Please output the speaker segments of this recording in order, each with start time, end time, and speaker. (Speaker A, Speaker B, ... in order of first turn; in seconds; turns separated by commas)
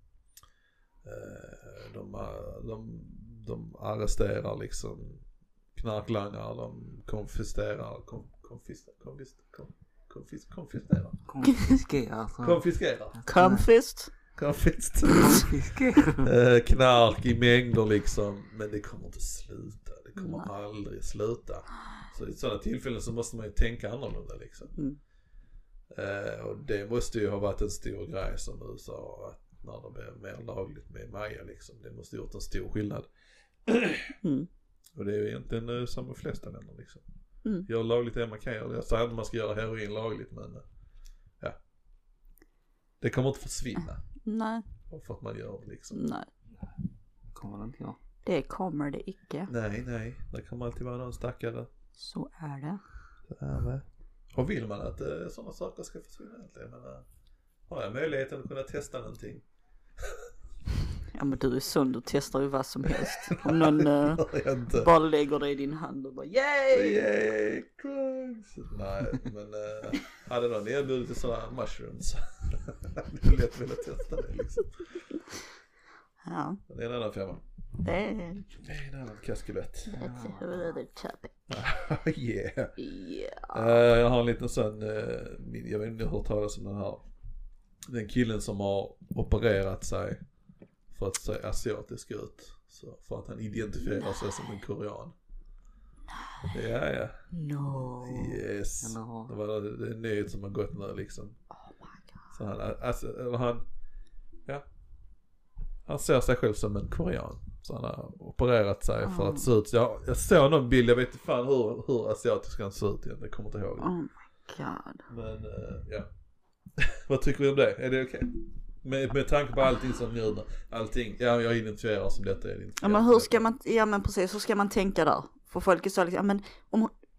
Speaker A: 1.0-11.2, Speaker B: 11.3-13.7, Speaker A: 12.4-13.2, Speaker C: 13.3-14.2, Speaker A: 14.3-15.6, Speaker B: 15.2-16.3, Speaker A: 16.2-24.8, Speaker C: 20.2-20.5, Speaker A: 25.9-33.1, Speaker A: 33.6-34.2, Speaker C: 34.2-34.5, Speaker A: 34.9-37.0, Speaker A: 37.7-40.6, Speaker A: 43.0-44.0, Speaker C: 44.2-44.6, Speaker A: 44.9-46.0, Speaker C: 45.9-46.3, Speaker B: 47.3-48.0, Speaker C: 48.2-49.5, Speaker A: 49.5-51.7, Speaker C: 52.0-52.8, Speaker A: 53.3-57.0, Speaker A: 57.7-59.4, Speaker A: 60.0-60.3, Speaker C: 61.1-67.0, Speaker A: 63.0-64.9, Speaker A: 66.7-75.0, Speaker C: 76.2-76.6, Speaker A: 76.7-77.4, Speaker C: 77.8-78.5, Speaker A: 78.6-80.0, Speaker B: 79.9-80.7, Speaker C: 80.0-81.3, Speaker A: 81.5-82.8, Speaker C: 82.8-83.7, Speaker A: 83.5-87.0, Speaker A: 87.9-90.2, Speaker A: 90.9-95.2, Speaker A: 96.5-97.3, Speaker C: 97.3-98.4, Speaker A: 98.0-101.4, Speaker B: 98.8-99.3, Speaker A: 102.3-103.7, Speaker A: 105.9-113.9, Speaker C: 109.0-109.5, Speaker C: 113.8-115.0, Speaker A: 115.1-116.1, Speaker A: 116.8-123.4, Speaker C: 122.8-126.9